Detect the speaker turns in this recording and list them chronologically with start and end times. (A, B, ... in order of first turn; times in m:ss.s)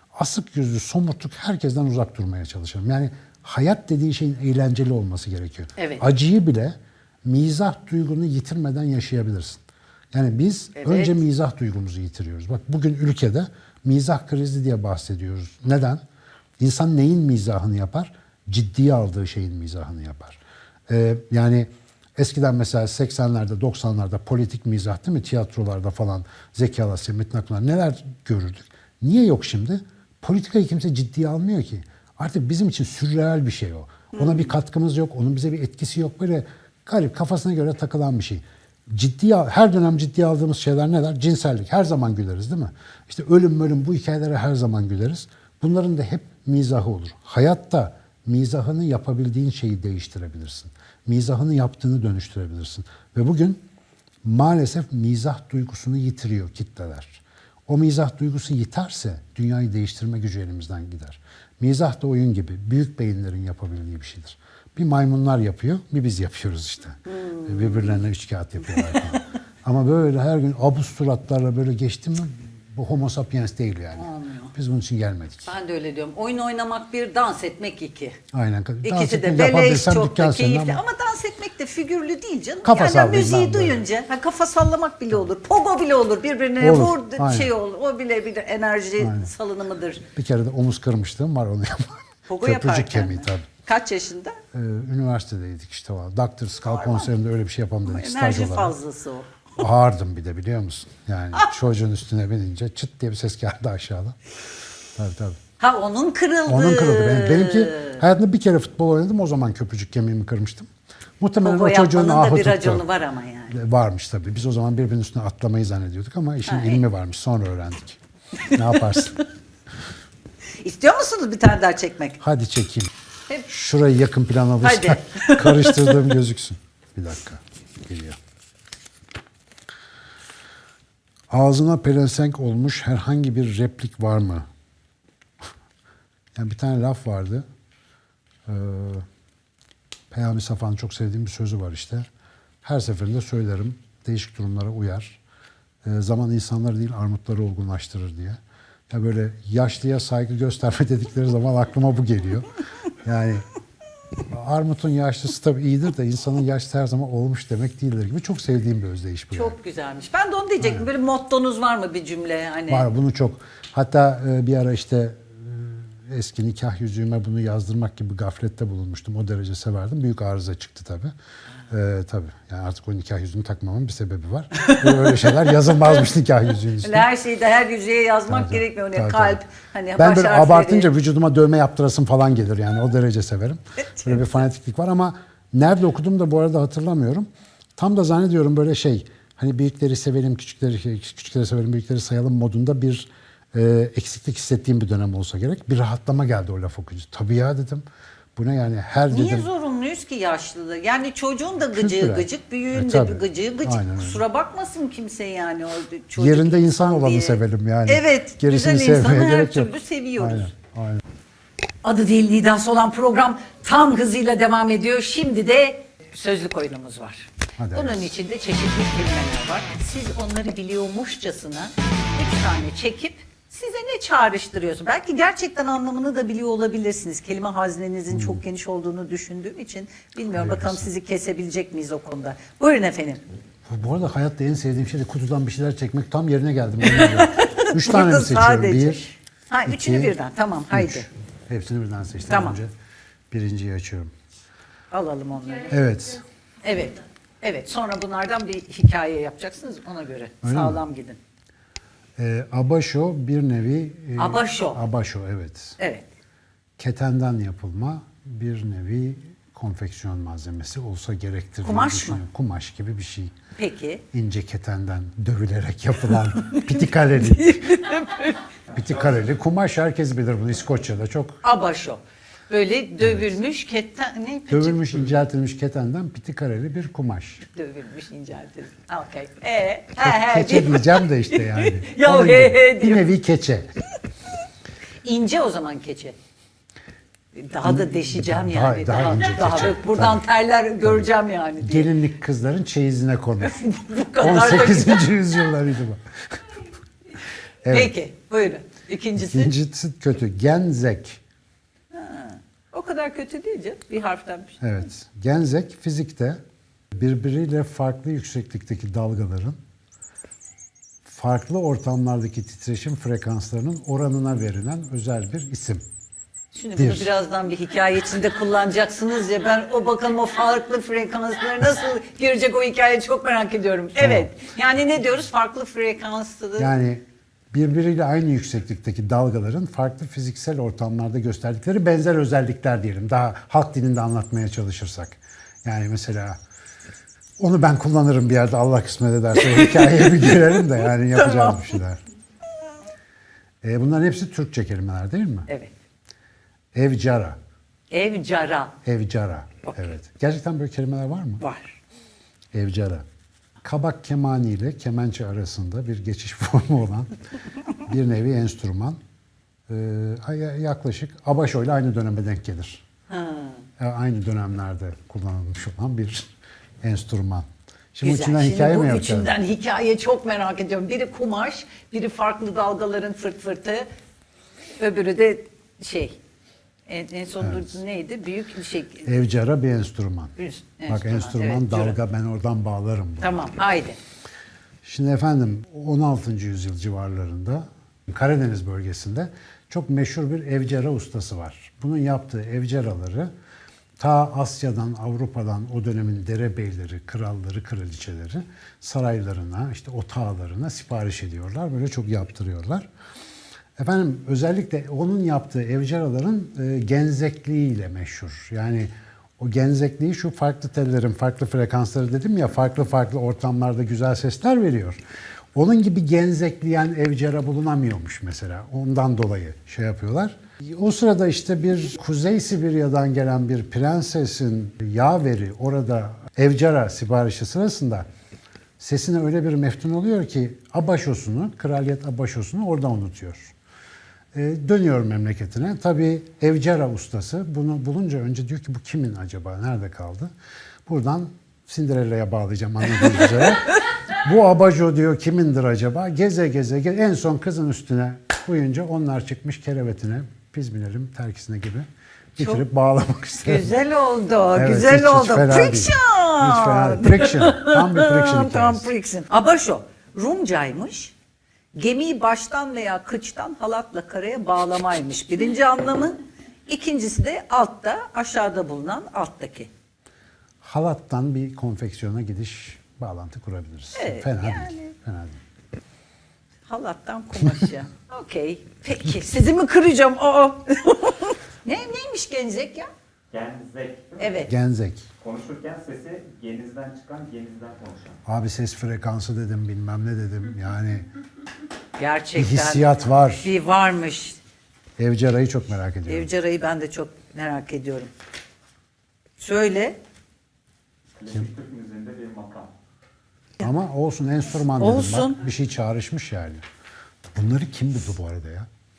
0:00.2-0:16.0 A
0:05.8-0:06.0 B
0:10.8-0:11.2 B
0:16.6-0:53.6 A
0:54.2-1:15.5 A
1:07.1-1:08.0 B
1:08.7-1:09.2 B
1:14.0-1:14.5 B
1:15.5-1:18.2 B
1:18.3-1:20.8 A
1:18.8-1:30.0 B
1:22.6-1:23.8 A
1:26.6-1:27.5 A
1:29.0-1:29.3 A
1:30.2-1:33.5 A
1:32.3-1:34.4 B
1:34.5-1:38.8 A
1:36.7-1:37.1 B
1:37.9-1:39.4 B
1:39.6-1:44.2 A
1:45.0-1:45.4 A
1:45.6-1:48.0 B
1:46.5-1:50.7 A
1:51.2-1:52.8 A
1:51.4-1:53.6 B
1:53.5-1:59.2 A
1:56.5-1:56.8 B
1:58.5-1:58.9 B
2:00.6-2:02.2 B
2:02.2-2:02.9 A
2:03.5-2:08.2 A
2:04.6-2:06.2 B
2:11.3-2:14.5 A
2:16.4-2:17.4 A
2:18.5-2:19.1 A
2:20.1-2:22.1 A
2:22.6-2:25.2 A
2:25.8-2:33.4 A
2:34.3-2:39.6 A
2:39.3-2:42.9 B
2:40.6-2:40.9 A
2:42.7-2:51.1 A
2:51.7-2:57.1 A
2:54.6-2:56.0 B
2:56.8-3:00.9 B
2:58.3-2:59.4 A
3:00.0-3:17.8 A
3:18.4-3:19.5 A
3:19.1-3:30.5 B
3:21.7-3:24.2 A
3:26.2-3:31.0 A
3:31.8-3:53.2 B
3:37.6-3:38.1 A
3:48.1-3:48.4 A
3:50.3-3:50.9 A
3:53.7-3:59.0 A
3:56.8-4:01.1 B
3:59.7-4:00.1 A
4:00.7-4:02.7 A
4:02.3-4:02.6 B
4:03.3-4:04.1 A
4:04.9-4:05.8 B
4:05.7-4:06.2 A
4:06.6-4:11.2 B
4:10.4-4:10.8 A
4:12.2-4:15.8 A
4:14.2-4:14.8 B
4:15.8-4:16.0 B
4:16.8-4:23.4 A
4:21.6-4:22.2 B
4:23.6-4:24.0 B
4:24.1-4:27.7 A
4:26.3-4:28.5 B
4:28.7-4:31.4 A
4:31.4-4:35.2 B
4:33.0-4:33.4 A
4:34.5-4:37.4 A
4:37.5-4:43.1 B
4:40.0-4:43.7 A
4:45.0-4:46.2 B
4:47.3-4:51.9 B
4:47.6-4:50.2 A
4:51.6-4:53.6 A
4:53.4-4:55.2 B
4:54.2-4:56.4 A
4:57.6-4:57.9 A
4:57.7-4:59.5 B
4:59.2-5:01.2 A
5:01.9-5:04.6 B
5:04.6-5:06.4 A
5:06.9-5:09.6 A
5:11.1-5:15.8 A
5:16.5-5:26.7 B
5:16.8-5:17.1 A
5:24.0-5:24.3 A
5:26.6-5:36.4 A
5:37.4-5:42.0 A
5:39.4-5:41.8 B
5:43.6-5:45.5 A
5:46.8-5:47.4 A
5:47.9-5:48.8 B
5:48.8-5:51.4 A
5:51.4-5:51.8 B
5:52.5-5:53.0 A
5:53.6-5:57.2 A
5:57.7-5:59.0 A
5:59.7-6:02.8 A
6:03.1-6:03.6 B
6:03.8-6:06.3 A
6:06.8-6:09.3 A
6:08.0-6:13.9 B
6:14.8-6:16.2 B
6:16.9-6:19.3 B
6:17.4-6:17.8 A
6:19.1-6:20.3 A
6:20.4-6:22.0 B
6:20.9-6:23.5 A
6:23.2-6:24.0 B
6:24.8-6:33.3 A
6:34.0-6:42.9 A
6:43.8-6:55.0 A
6:55.6-7:08.1 A
7:08.8-7:13.5 A
7:14.3-7:20.3 A
7:20.9-7:33.7 A
7:33.4-7:41.1 B
7:34.5-7:38.9 A
7:41.8-7:49.7 B
7:50.6-7:55.4 A
7:54.0-7:54.9 B
7:56.7-8:02.9 B
8:03.3-8:04.2 C
8:04.2-8:04.5 B
8:04.4-8:05.1 A
8:05.2-8:08.2 C
8:08.2-8:11.1 A
8:12.0-8:14.4 B
8:12.4-8:13.5 A
8:15.0-8:16.3 A
8:16.1-8:18.1 B
8:19.4-8:20.0 B
8:21.2-8:22.7 C
8:23.6-8:26.6 A
8:24.8-8:25.4 B
8:27.3-8:28.7 A